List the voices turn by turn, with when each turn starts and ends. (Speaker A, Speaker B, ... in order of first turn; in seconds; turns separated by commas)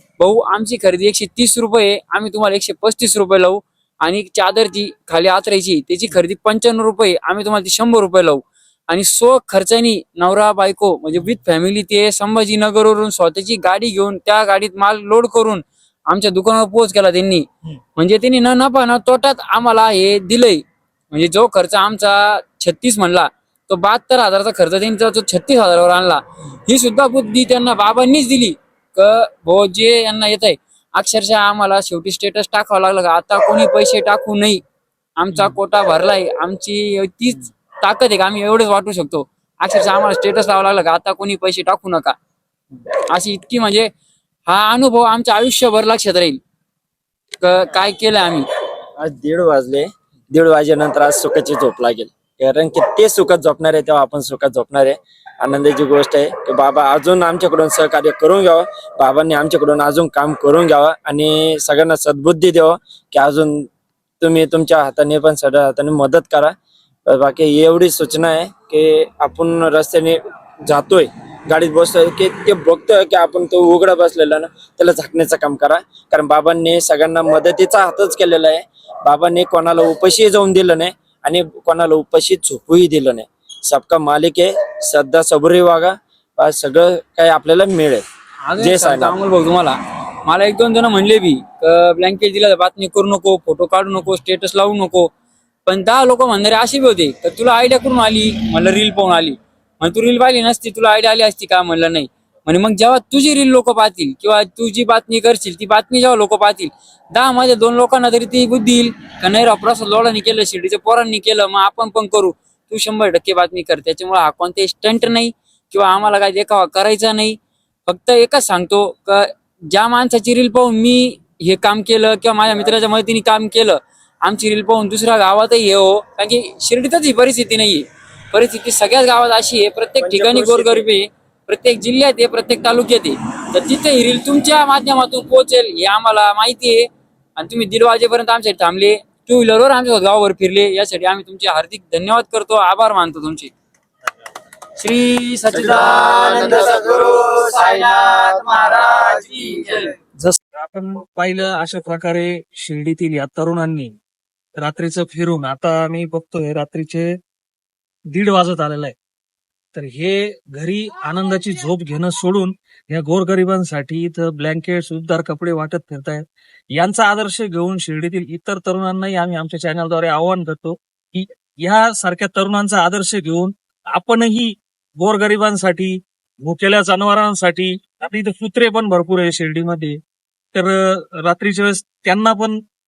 Speaker A: 0.2-34.6, Speaker A: 35.2-42.1, Speaker A: 43.1-43.9, Speaker A: 44.5-46.4, Speaker A: 47.4-48.5, Speaker B: 49.0-63.7, Speaker B: 64.2-66.5, Speaker B: 67.1-88.0, Speaker A: 88.5-95.1, Speaker B: 88.6-89.2, Speaker A: 95.7-143.5, Speaker B: 130.0-130.9, Speaker A: 144.8-149.9, Speaker B: 145.7-146.6, Speaker C: 150.2-153.9, Speaker C: 154.6-157.2, Speaker C: 158.1-159.0, Speaker C: 159.7-180.0, Speaker C: 180.5-182.6